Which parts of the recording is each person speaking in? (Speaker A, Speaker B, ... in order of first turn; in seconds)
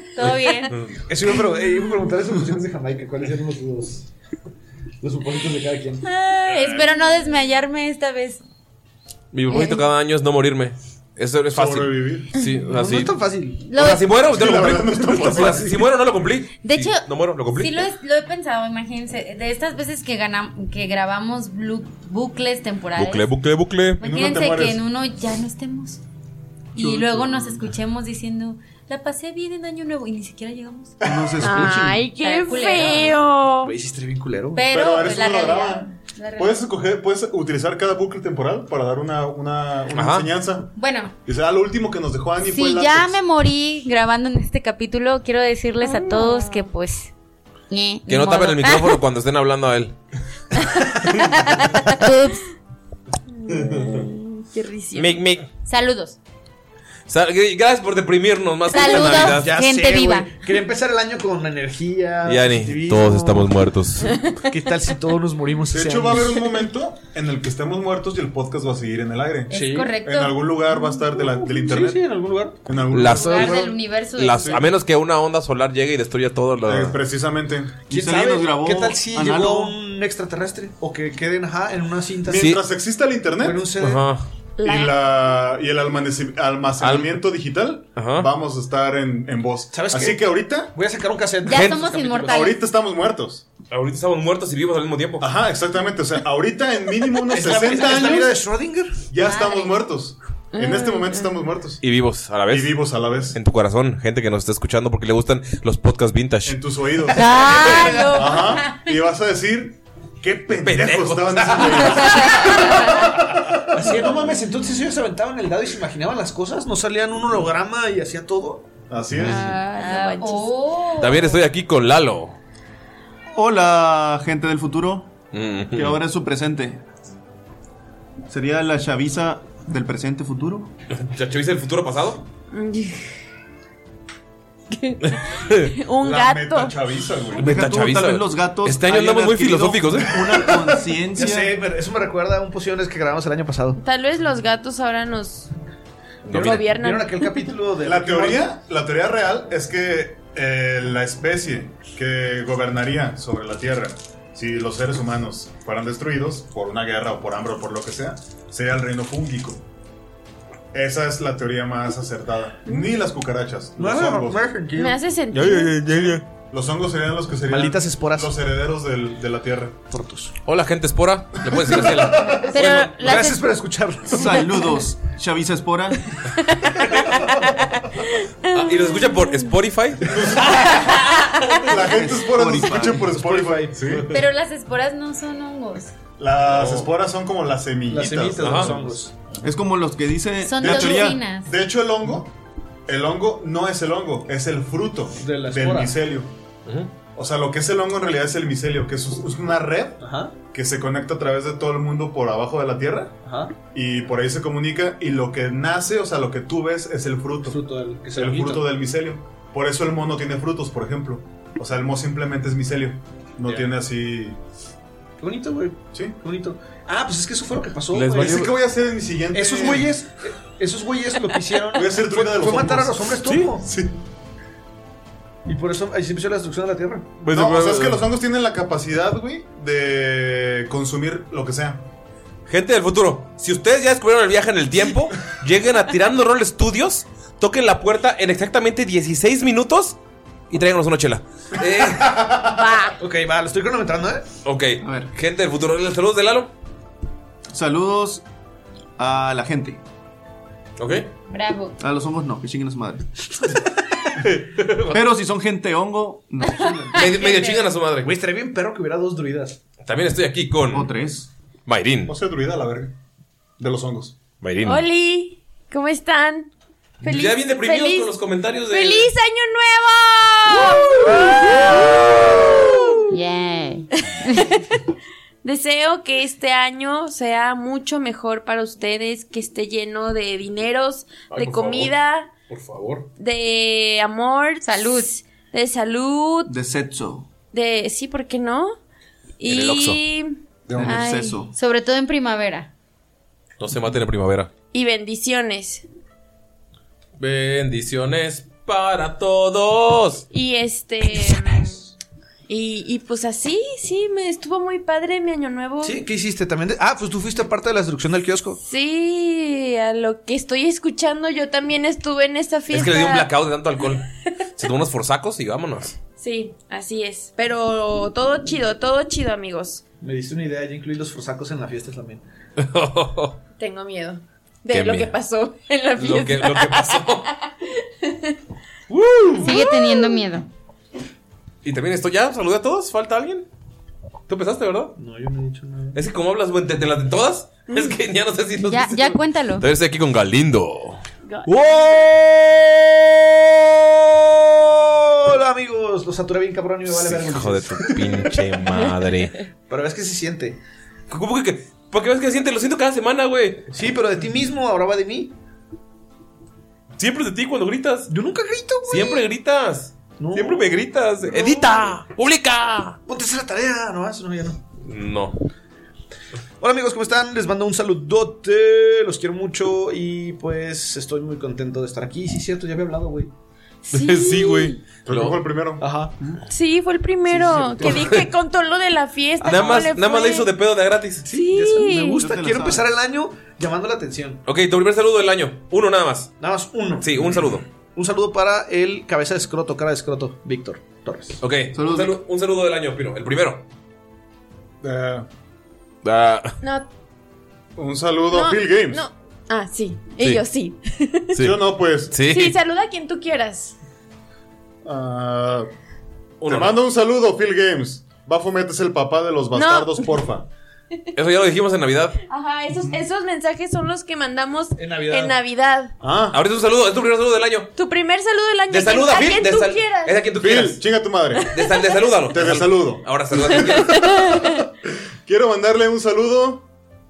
Speaker A: 0.1-0.8, 6.0-8.4, 9.5-9.8, 13.7-14.0, 16.6-23.3, 24.0-26.0, 26.7-31.0, 32.2-33.2, 34.5-36.6, 40.8-41.1, 42.4-47.1, 47.7-49.0, 51.8-52.5, 55.7-56.2, 58.7-60.3, 69.5-70.4, 73.1-74.6, 91.4-92.6, 99.2-99.8, 107.2-108.5, 119.8-121.4, 172.5-173.5, 184.1-185.9, 190.4-191.5, 251.3-251.8, 273.1-274.5, 284.6-285.2, 291.5-292.7, 329.4-330.5, 338.6-339.7
Speaker B: 0.7-1.0, 9.3-17.9, 23.0-24.0, 39.9-40.3, 48.1-50.0, 55.0-55.5, 57.1-59.6, 62.3-64.2, 72.9-77.0, 82.3-82.6, 83.8-84.3, 86.8-87.2, 88.0-88.3, 93.7-95.3, 101.8-106.6, 110.5-112.7, 119.2-119.4, 121.0-122.4, 125.3-126.0, 130.9-132.2, 135.0-135.8, 137.3-140.1, 146.3-146.7, 165.3-166.2, 170.4-173.1, 178.5-180.4, 186.5-186.9, 188.4-188.8, 217.9-218.5, 223.2-223.5, 227.2-228.0, 232.5-240.0, 240.5-242.4, 244.4-246.5, 250.8-251.1, 254.2-255.0, 256.9-258.1, 259.8-260.9, 261.7-262.1, 264.4-264.9, 267.0-269.1, 271.6-271.9, 281.3-281.9, 282.5-283.1, 289.5-290.0, 293.6-294.5, 297.2-300.3, 312.7-316.0, 322.6-323.4, 324.7-325.1, 326.0-327.3, 328.9-329.7, 331.6-333.5, 334.3-334.9, 335.9-341.0, 346.9-349.4, 351.1-353.7, 357.0-358.1, 358.9-363.0, 364.8-365.4, 373.9-375.4, 377.8-378.3, 379.4-381.3, 384.5-386.3, 387.0-387.7, 391.4-393.6, 396.0-396.6, 401.3-402.6, 406.4-406.8, 411.1-412.2, 416.3-417.7, 418.7-420.8, 421.5-424.2
Speaker C: 1.1-4.1, 5.0-6.0, 12.7-13.7, 33.6-34.6, 59.0-63.6, 64.4-66.5, 69.5-69.9, 70.8-72.6, 77.9-82.5, 83.4-84.1, 89.7-92.5, 97.3-99.0, 113.7-118.7, 141.2-143.8, 146.3-148.5, 163.8-165.0, 167.5-168.3, 169.9-170.3, 173.0-174.4, 183.0-184.1, 187.9-189.1, 195.2-196.0, 200.0-200.3, 203.2-203.6, 207.5-208.7, 215.2-218.4, 219.3-223.7, 225.5-227.2, 243.0-244.3, 258.0-259.6, 305.8-308.6, 320.0-322.2, 335.0-336.0, 341.5-348.6, 349.7-350.6, 353.7-355.3, 358.1-359.2, 360.2-361.9, 363.1-364.6, 366.6-373.3, 375.8-376.3, 377.3-378.1, 379.4-379.9, 381.2-384.4, 386.4-391.4, 414.8-415.4
Speaker D: 11.5-12.4, 14.2-15.8, 24.0-24.8, 31.0-31.5, 34.7-40.7, 41.2-43.2, 65.7-72.1, 72.6-73.8, 74.4-74.7, 76.7-77.8, 82.2-83.7, 84.6-90.7, 92.3-93.4, 95.2-98.4, 99.1-101.8, 102.5-103.4, 106.4-114.2, 118.9-119.5, 136.0-137.6, 140.1-140.9, 147.8-159.6, 160.7-164.4, 166.0-169.8, 171.4-172.6, 180.1-184.2, 186.2-189.0, 190.6-192.3, 192.9-196.3, 197.2-203.2, 203.7-207.6, 208.1-214.4, 218.1-219.9, 221.7-223.9, 227.3-231.8, 242.1-242.6, 262.1-262.9, 263.6-264.1, 290.7-291.0, 375.1-375.9, 394.8-395.3, 397.8-399.1, 401.4-402.2, 404.9-405.7, 406.4-410.5, 416.0-416.4, 420.4-421.6, 422.3-423.9, 425.2-426.7
Speaker E: 26.8-27.6, 31.0-32.1, 77.9-79.8, 123.3-125.1, 125.8-126.8, 128.3-130.7, 137.4-141.6, 174.1-176.0, 181.8-183.2, 189.4-191.2, 244.8-245.1, 247.5-248.2, 249.0-249.8, 251.8-253.1, 254.9-256.9, 260.7-261.3, 286.5-287.3, 290.7-291.5, 381.8-382.9, 391.7-392.2
Speaker F: 31.4-33.7, 46.0-46.7, 53.5-55.2, 64.1-64.5, 84.6-85.0, 100.5-101.3, 107.2-108.6, 119.2-120.6, 132.5-133.1, 134.7-136.8, 143.8-145.5, 146.3-147.5, 164.8-165.8, 176.6-179.2, 181.1-181.6, 242.4-243.0, 256.9-257.6, 264.6-266.5, 267.0-268.1, 268.7-273.1, 274.1-274.8, 275.4-282.3, 283.2-286.5, 287.5-288.7, 289.4-291.5, 294.7-295.9, 300.3-301.9, 302.5-306.0, 308.6-313.3, 316.2-319.8, 323.6-328.4, 329.4-330.2, 341.3-342.0, 373.9-374.8, 376.5-380.5, 381.3-382.2, 396.6-396.9, 398.3-401.4, 402.3-403.8, 409.5-410.1, 412.3-415.9, 417.8-420.3, 423.6-424.6